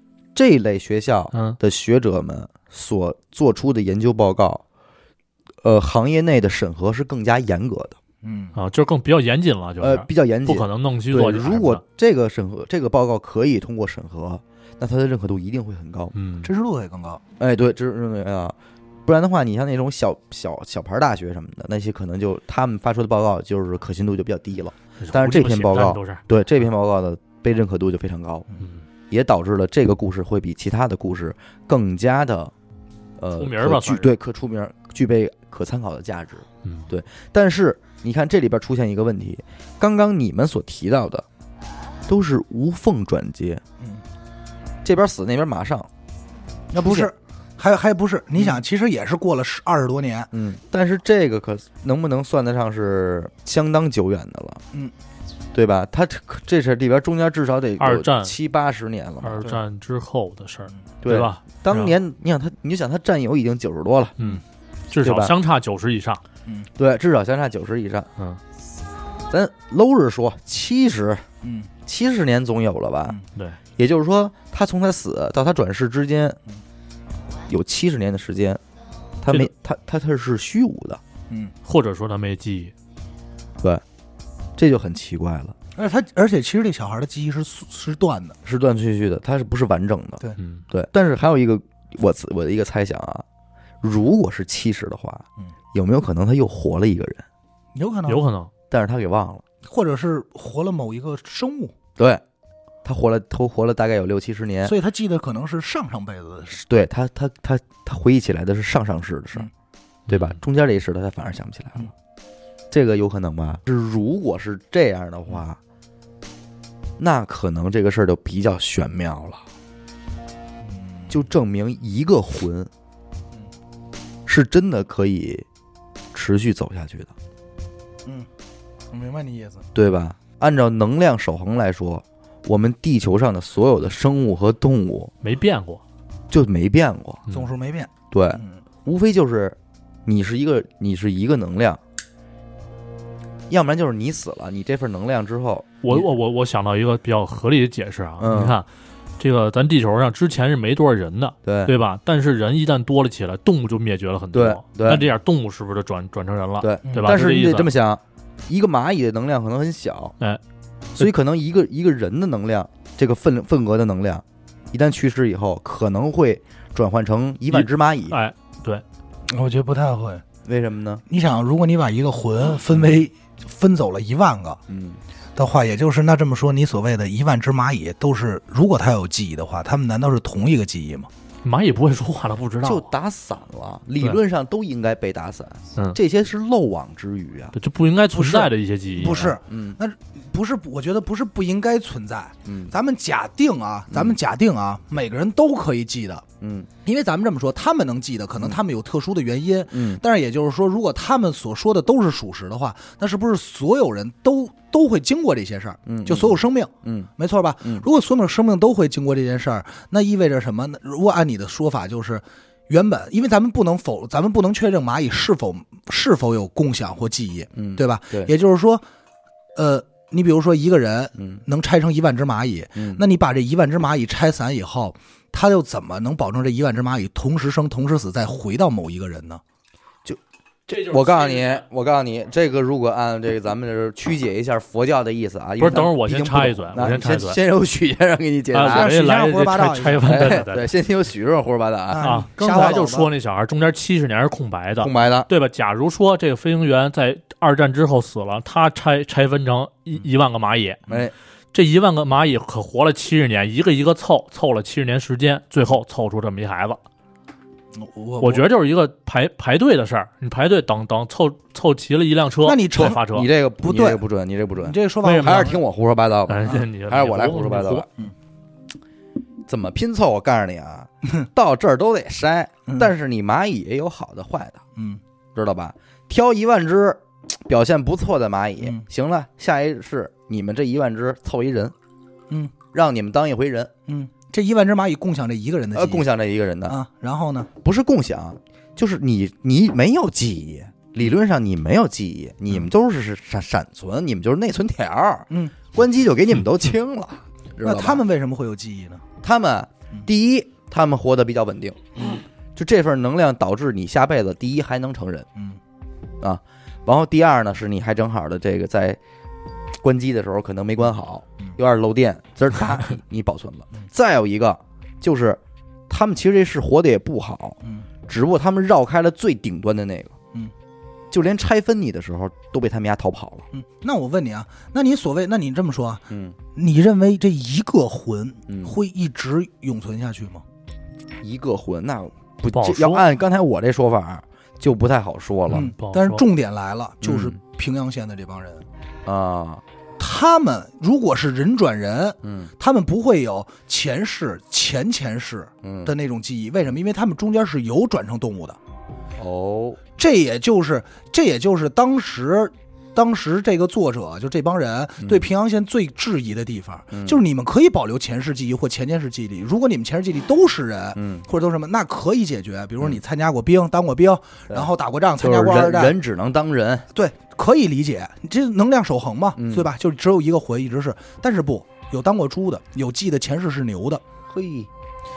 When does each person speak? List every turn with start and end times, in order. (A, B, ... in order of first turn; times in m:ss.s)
0:00.4-0:04.6 A
0:01.3-0:01.6 B
0:05.6-0:08.0 A
0:08.2-0:08.6 C
0:08.6-0:11.8 B
0:09.8-0:16.1 A
0:16.2-0:16.5 B
0:16.4-0:17.2 C
0:17.4-0:18.6 A
0:19.1-0:28.5 A
0:25.0-0:26.2 B
0:29.1-0:32.5 A
0:33.2-0:41.2 A
0:33.4-0:34.1 B
0:42.1-0:43.6 A
0:43.8-0:44.0 C
0:44.8-0:45.9 A
0:46.7-0:50.3 C
0:46.8-0:47.1 A
0:50.3-0:54.6 A
0:55.5-0:59.5 A
0:57.8-0:58.4 B
0:59.2-1:01.9 B
1:01.0-1:04.2 A
1:04.2-1:06.2 B
1:05.0-1:05.3 A
1:06.8-1:08.1 A
1:09.3-1:11.3 A
1:11.4-1:11.7 C
1:11.9-1:13.2 A
1:13.8-1:16.4 A
1:17.5-1:18.6 A
1:19.2-1:21.0 A
1:21.6-1:22.7 B
1:24.6-1:25.6 A
1:25.8-1:28.4 C
1:28.4-1:33.2 A
1:30.4-1:30.6 B
1:33.8-1:37.3 A
1:37.8-1:38.2 C
1:38.1-1:38.5 B
1:38.7-1:39.4 A
1:39.6-1:41.7 C
1:42.0-1:42.2 A
1:42.8-1:44.8 A
1:44.6-1:46.6 C
1:46.6-1:49.5 A
1:50.1-1:50.4 B
1:50.1-1:51.9 A
1:52.7-1:55.6 A
1:57.0-1:59.4 A
2:00.6-2:01.1 C
2:01.1-2:02.7 A
2:04.3-2:05.5 A
2:06.1-2:07.1 A
2:08.9-2:09.7 C
2:09.8-2:15.1 A
2:15.2-2:15.8 B
2:16.3-2:17.2 A
2:17.3-2:18.6 C
2:18.1-2:21.8 A
2:23.5-2:26.1 A
2:25.8-2:28.7 B
2:28.2-2:28.6 A
2:29.2-2:37.7 B
2:31.5-2:31.7 A
2:34.3-2:35.1 A
2:36.6-2:40.2 A
2:36.9-2:37.2 C
2:41.0-2:48.2 A
2:47.5-2:48.8 B
2:49.3-2:50.2 C
2:50.4-2:51.0 A
2:51.1-2:54.6 C
2:54.7-2:55.0 A
2:55.4-3:01.1 C
3:01.4-3:02.9 B
3:02.6-3:07.5 A
3:07.6-3:09.4 B
3:08.1-3:16.2 C
3:09.5-3:09.8 A
3:12.5-3:12.7 A
3:13.9-3:14.2 A
3:16.4-3:16.7 A
3:16.8-3:38.8 C
3:19.7-3:20.0 A
3:25.9-3:27.1 A
3:37.5-3:38.3 A
3:39.6-3:49.4 C
3:41.2-3:41.4 A
3:42.8-3:43.0 A
3:50.0-3:58.9 A
3:50.7-3:51.6 B
3:55.6-3:57.4 B
3:58.5-4:00.7 B
3:58.6-4:00.5 C
4:00.0-4:02.8 A
4:01.9-4:03.1 C
4:02.0-4:10.8 B
4:04.8-4:05.3 A
4:10.9-4:11.1 A
4:11.5-4:16.8 B
4:17.7-4:18.5 C
4:18.2-4:23.3 B
4:22.4-4:23.0 C
4:22.8-4:27.9 A
4:23.6-4:24.0 C
4:24.6-4:25.6 C
4:25.0-4:25.6 B
4:26.3-4:27.9 B
4:29.5-4:34.6 A
4:34.8-4:35.0 C
4:35.4-4:41.7 A
4:42.3-4:42.6 C
4:42.7-4:43.7 A
4:43.9-4:46.1 C
4:45.7-4:46.8 A
4:46.7-4:47.5 C
4:47.6-4:58.0 A
4:55.3-4:55.6 C
4:57.6-4:59.0 C
4:59.2-5:01.8 A
5:02.0-5:02.2 C
5:02.6-5:05.3 A
5:06.2-5:09.0 A
5:09.8-5:20.2 A
5:21.1-5:23.5 A
5:23.5-5:30.4 C
5:26.1-5:26.4 A
5:28.5-5:28.8 A
5:31.2-5:35.7 A
5:32.5-5:33.1 B
5:35.5-5:38.7 C
5:35.5-5:36.2 B
5:37.0-5:37.4 A
5:39.1-5:39.6 A
5:40.0-5:48.6 C
5:42.2-5:42.5 A
5:45.6-5:45.9 A
5:49.2-5:49.8 A
5:50.0-6:06.0 C
5:55.0-5:55.3 A
5:56.9-5:57.2 A
6:01.0-6:01.2 A
6:04.5-6:06.9 A
6:06.9-6:14.0 C
6:09.4-6:09.7 A
6:14.3-6:14.7 A